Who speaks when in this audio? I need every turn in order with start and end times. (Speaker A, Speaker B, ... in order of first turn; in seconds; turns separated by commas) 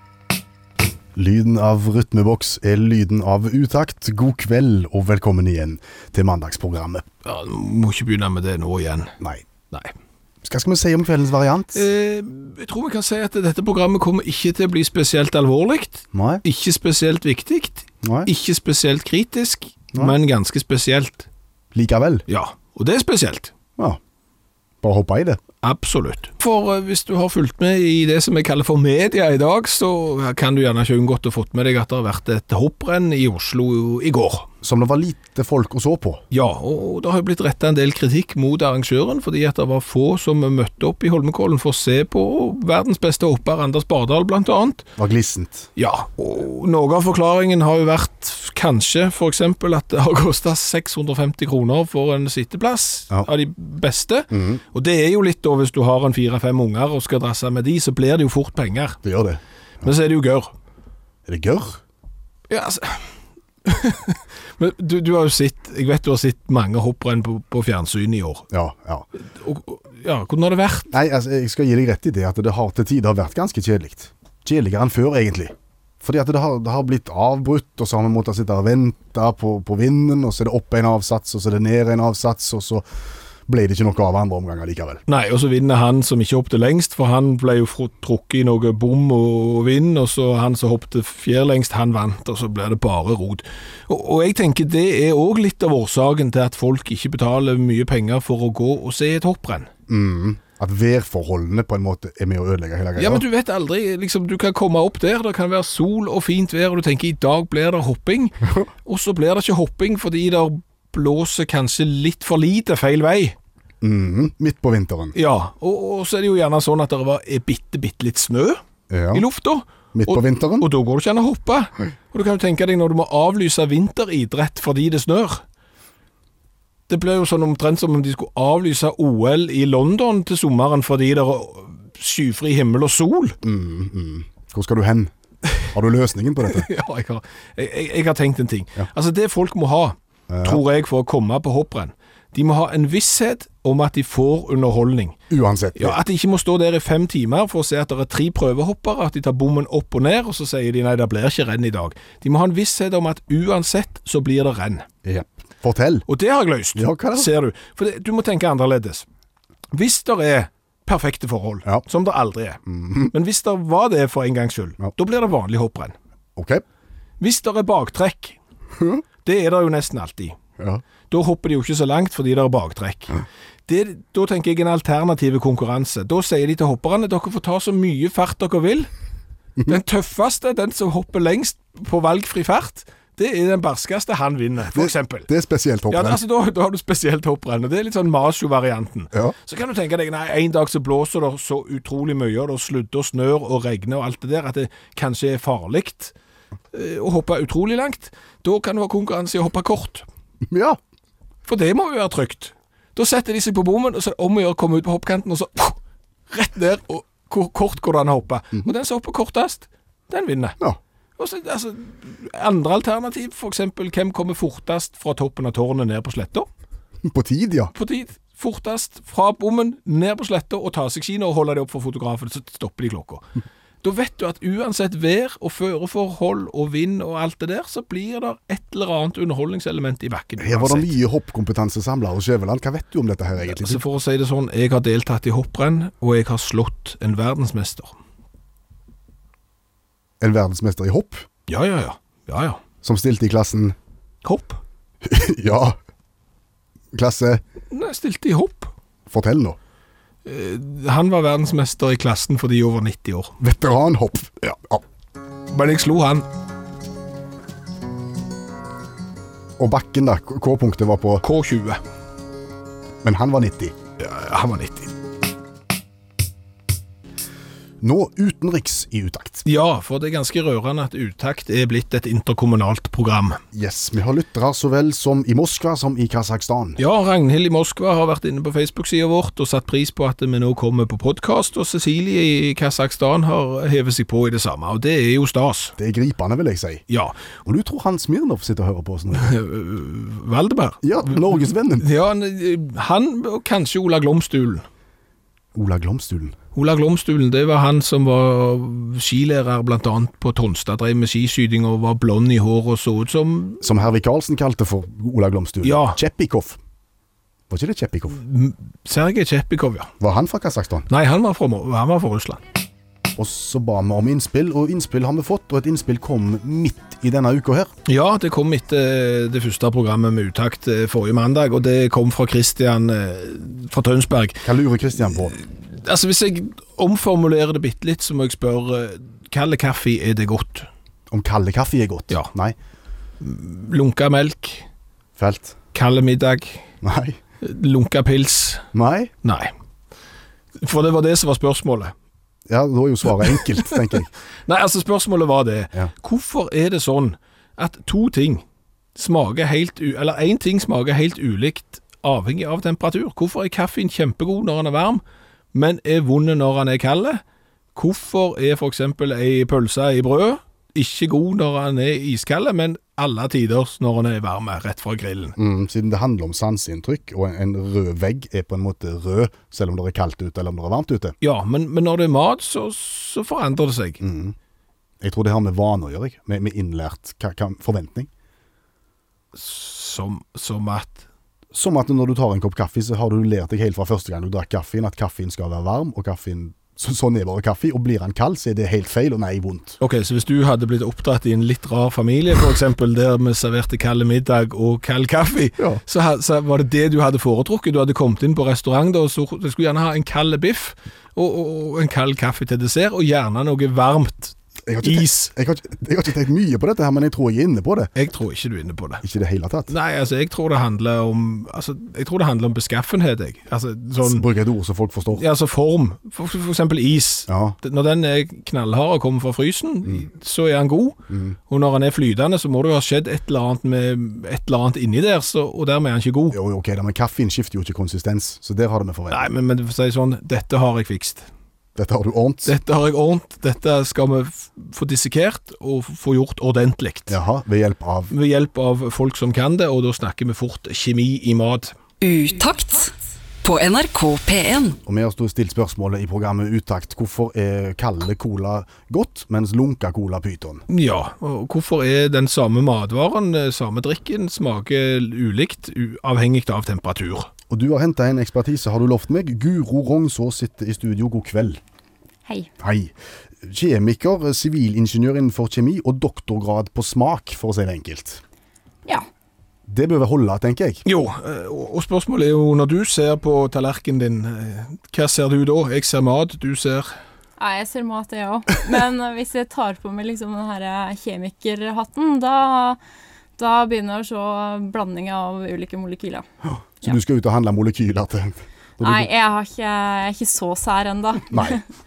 Speaker A: 1.2-7.1, Speaker B: 7.2-9.1, Speaker A: 10.4-11.9, Speaker B: 11.7-21.3, Speaker A: 16.1-16.4, Speaker A: 18.0-18.3, Speaker A: 21.7-22.2, Speaker B: 22.3-23.5, Speaker A: 24.8-25.4, Speaker B: 25.6-34.5, Speaker A: 34.6-36.2, Speaker B: 36.3-44.9, Speaker A: 45.0-45.7, Speaker B: 45.8-59.0, Speaker A: 54.3-54.6, Speaker A: 59.0-59.9, Speaker B: 59.8-60.5, Speaker A: 61.3-61.8, Speaker B: 62.5-68.5, Speaker A: 68.5-69.1, Speaker B: 69.4-70.9, Speaker A: 70.9-82.8, Speaker A: 83.5-85.0, Speaker B: 85.1-99.7, Speaker A: 99.9-103.2, Speaker B: 103.0-113.4, Speaker A: 113.8-115.2, Speaker B: 115.1-118.6, Speaker A: 118.9-119.2, Speaker B: 119.1-125.4, Speaker A: 119.9-120.7, Speaker B: 126.9-133.4, Speaker A: 133.4-135.1, Speaker A: 135.7-136.7, Speaker B: 136.6-145.2, Speaker A: 140.3-140.6, Speaker A: 145.3-146.0, Speaker B: 145.8-154.9, Speaker A: 155.0-156.1, Speaker B: 156.1-159.1, Speaker A: 156.8-157.3, Speaker B: 159.7-165.9, Speaker A: 162.7-163.1, Speaker A: 166.4-166.6, Speaker B: 167.2-168.4, Speaker A: 168.8-169.0, Speaker B: 169.2-170.4, Speaker B: 171.1-173.2, Speaker B: 173.7-178.9, Speaker B: 179.7-185.3, Speaker A: 184.7-186.2, Speaker B: 185.9-196.1, Speaker B: 196.7-200.1, Speaker A: 200.4-200.8, Speaker B: 201.5-205.8, Speaker B: 206.3-210.6, Speaker B: 211.2-216.5, Speaker A: 217.1-217.7, Speaker B: 217.8-223.2, Speaker B: 223.8-230.9, Speaker A: 230.4-233.8, Speaker B: 233.4-237.9, Speaker A: 240.2-241.3, Speaker B: 241.5-242.6, Speaker A: 242.8-243.8, Speaker B: 244.2-244.6, Speaker A: 245.0-245.8, Speaker A: 246.9-247.4, Speaker B: 247.7-248.7, Speaker A: 249.1-249.6, Speaker B: 250.2-253.3, Speaker A: 253.4-254.8, Speaker B: 255.5-256.3, Speaker A: 259.6-261.2, Speaker B: 261.2-261.8, Speaker A: 263.0-263.8, Speaker B: 264.0-264.9, Speaker A: 267.8-269.4, Speaker B: 269.4-273.4, Speaker A: 273.5-276.8, Speaker B: 276.8-285.8, Speaker A: 285.8-286.9, Speaker B: 286.9-287.2, Speaker A: 287.4-289.3, Speaker B: 289.2-294.6, Speaker A: 290.8-291.9, Speaker A: 295.5-296.4, Speaker B: 296.5-303.6, Speaker A: 303.6-306.6, Speaker B: 305.6-306.0, Speaker A: 307.5-308.2, Speaker B: 308.2-309.9, Speaker A: 310.0-310.9, Speaker B: 310.9-312.4, Speaker A: 313.2-317.7, Speaker B: 317.9-324.5, Speaker A: 324.4-325.4, Speaker B: 325.2-330.7, Speaker A: 331.1-332.6, Speaker B: 333.2-334.7, Speaker A: 335.2-335.6, Speaker B: 335.7-336.6, Speaker A: 336.8-337.2, Speaker B: 337.4-338.6, Speaker A: 338.7-339.1, Speaker B: 339.2-339.5, Speaker B: 340.6-341.9, Speaker A: 342.5-344.1, Speaker B: 344.5-348.4, Speaker B: 349.0-355.0, Speaker B: 355.5-357.2, Speaker B: 357.8-365.4, Speaker A: 365.4-371.2, Speaker B: 371.2-374.0, Speaker A: 374.0-374.4, Speaker A: 375.0-378.1, Speaker B: 379.4-381.1, Speaker A: 381.5-389.8, Speaker B: 389.8-405.3, Speaker A: 404.7-407.9, Speaker B: 408.0-409.0, Speaker A: 409.0-409.7, Speaker B: 409.7-414.2, Speaker A: 414.0-415.2, Speaker B: 415.1-421.0, Speaker A: 417.3-417.6, Speaker A: 421.1-421.4, Speaker B: 421.5-426.4, Speaker A: 426.3-429.3, Speaker B: 429.1-431.3, Speaker A: 431.8-432.5, Speaker B: 432.5-437.2, Speaker A: 437.1-438.1, Speaker B: 438.1-441.8, Speaker C: 442.0-442.9, Speaker C: 443.4-444.8, Speaker A: 444.8-450.6, Speaker B: 450.7-457.3, Speaker A: 457.5-461.6, Speaker A: 462.6-468.2, Speaker A: 469.7-470.8, Speaker B: 470.9-476.9, Speaker D: 477.4-482.8, Speaker D: 483.4-486.2, Speaker A: 486.4-489.1, Speaker D: 488.8-491.6, Speaker A: 491.3-491.6